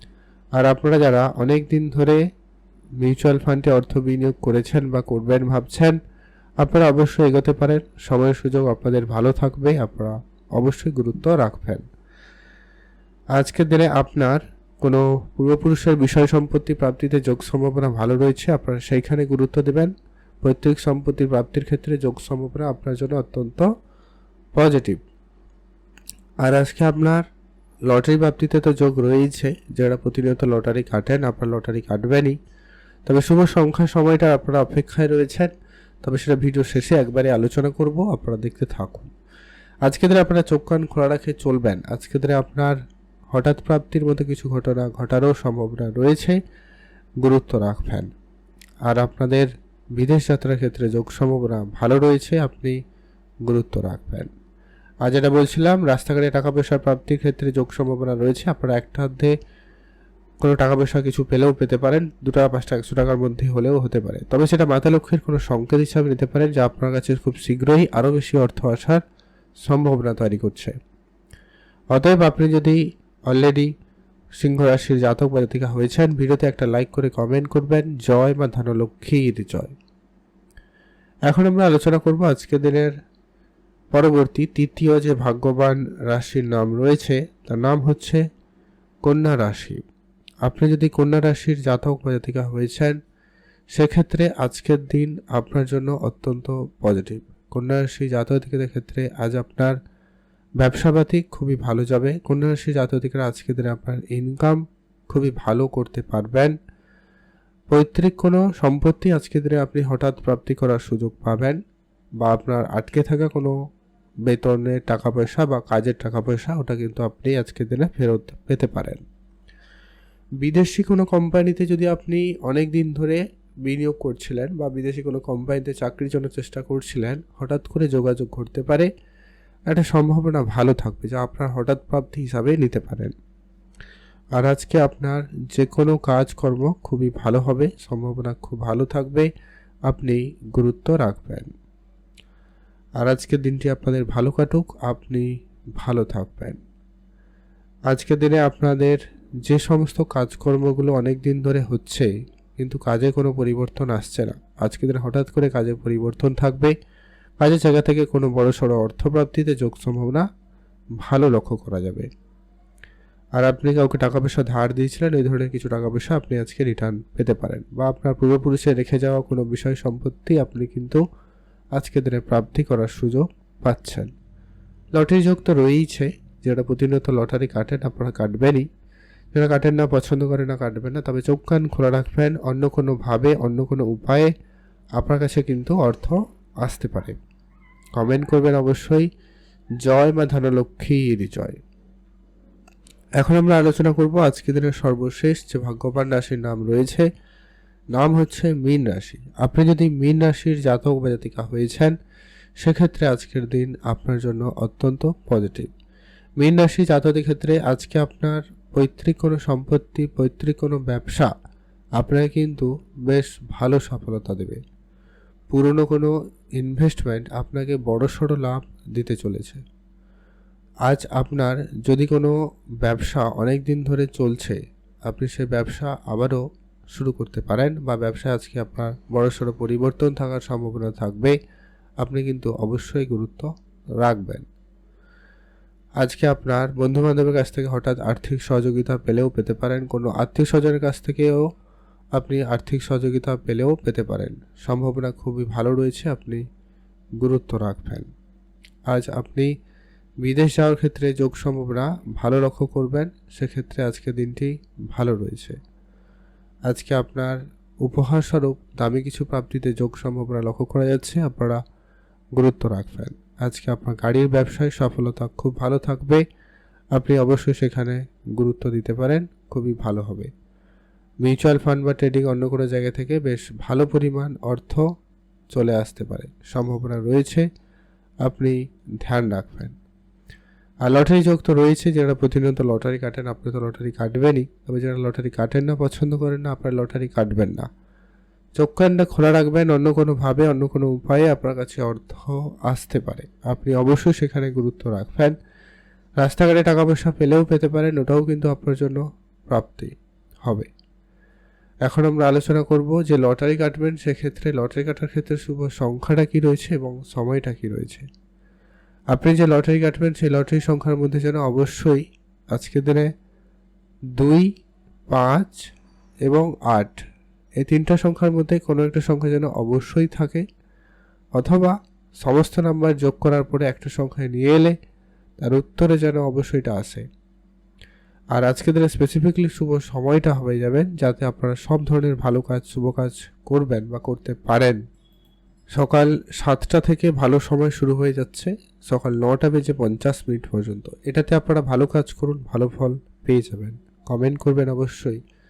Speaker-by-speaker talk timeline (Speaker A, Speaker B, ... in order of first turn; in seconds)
Speaker A: 0.6-2.2, 3.0-6.0, 6.6-11.8, 13.4-23.7, 24.5-25.0, 26.4-27.2, 27.9-32.4, 33.0-35.5, 36.0-39.1, 39.9-42.8, 43.3-46.4, 47.2-48.1, 48.9-52.8, 53.5-54.3, 55.0-59.3, 60.4-69.0, 69.6-70.8, 71.9-73.7, 74.4-79.7, 81.3-82.9, 83.9-88.2, 89.0-89.8, 90.4-93.0, 93.7-99.8, 100.6-106.5, 107.7-111.6, 112.2-113.5, 114.3-119.0, 120.4-128.9, 129.7-133.1, 134.4-139.3, 139.9-141.5, 143.0-145.3, 145.8-146.6, 147.9-156.7, 157.4-160.3, 161.0-162.1, 163.4-171.0, 171.7-174.1, 174.9-178.7, 179.3-184.3, 185.0-187.2, 188.0-189.1, 189.8-191.6, 193.2-197.1, 197.9-201.9, 202.6-205.7, 206.4-211.3, 212.0-214.6, 215.5-219.6, 220.9-231.3, 232.0-234.5, 236.0-241.5, 242.2-246.4, 247.2-248.1, 248.9-249.5, 250.2-255.6, 256.7-261.6, 262.4-266.2, 266.9-270.3, 271.2-274.8, 275.5-277.5, 278.2-279.7, 280.8-287.7, 288.6-295.3, 296.2-299.9, 301.9-308.1, 309.1-313.1, 314.2-314.5, 315.1-315.6, 316.2-317.0, 317.6-320.4, 321.4-324.7, 325.4-327.0, 328.4-334.8, 335.8-345.2